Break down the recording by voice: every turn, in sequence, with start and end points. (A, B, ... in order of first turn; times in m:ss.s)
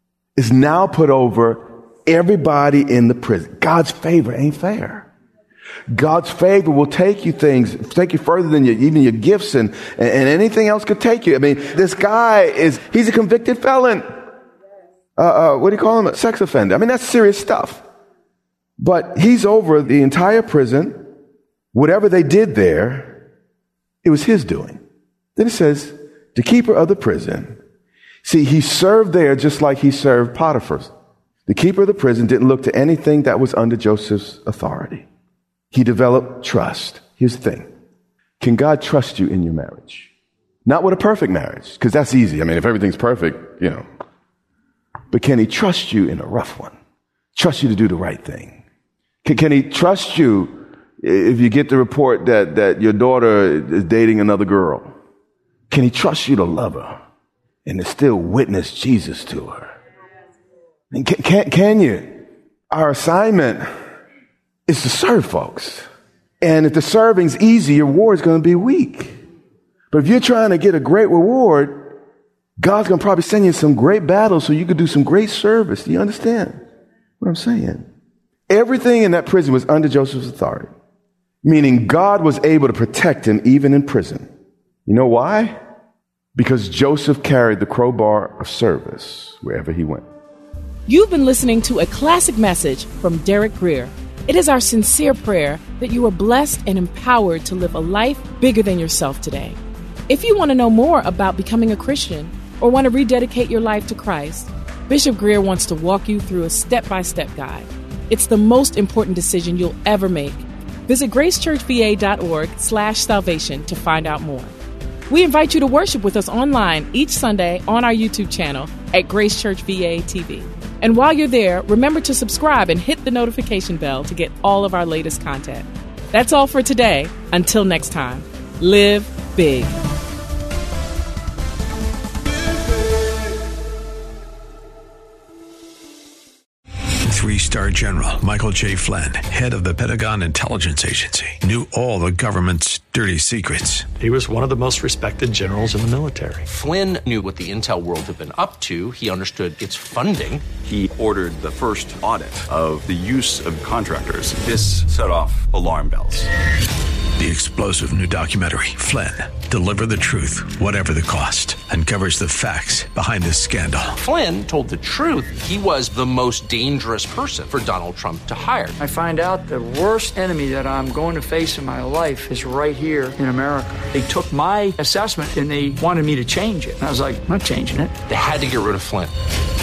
0:00.4-0:05.1 A
0:05.9-0:14.1 A
0:15.2-0:17.8 A
0:18.8-0:21.0 A
0:21.7-0:23.2 A
0:24.0-0:24.8 A
0:25.4-0:27.6 A
0:28.2-0:30.9 A
0:31.5-0:35.1 A
0:35.7-0:37.7 A
0:38.4-0:40.1 A
0:40.6-0:43.8 A
0:45.1-0:46.7 A
0:47.3-0:48.6 A
0:49.2-0:54.9 A
0:55.7-0:57.0 A
0:57.6-0:59.7 A
1:00.9-1:03.7 A
1:04.7-1:05.9 A
1:06.4-1:09.2 A
1:09.9-1:12.0 A
1:12.6-1:16.6 A
1:17.2-1:17.9 A
1:18.5-1:20.7 A
1:21.4-1:24.3 A
1:24.8-1:25.6 A
1:26.4-1:30.0 A
1:30.9-1:39.6 B
1:40.1-1:54.5 B
1:55.1-2:09.7 B
2:17.0-2:23.9 C
2:24.0-2:26.4 D
2:26.4-2:30.4 E
2:30.6-2:36.3 F
2:37.2-2:44.0 C
2:44.0-2:48.8 E
2:48.8-2:58.0 G
2:58.1-2:59.1 E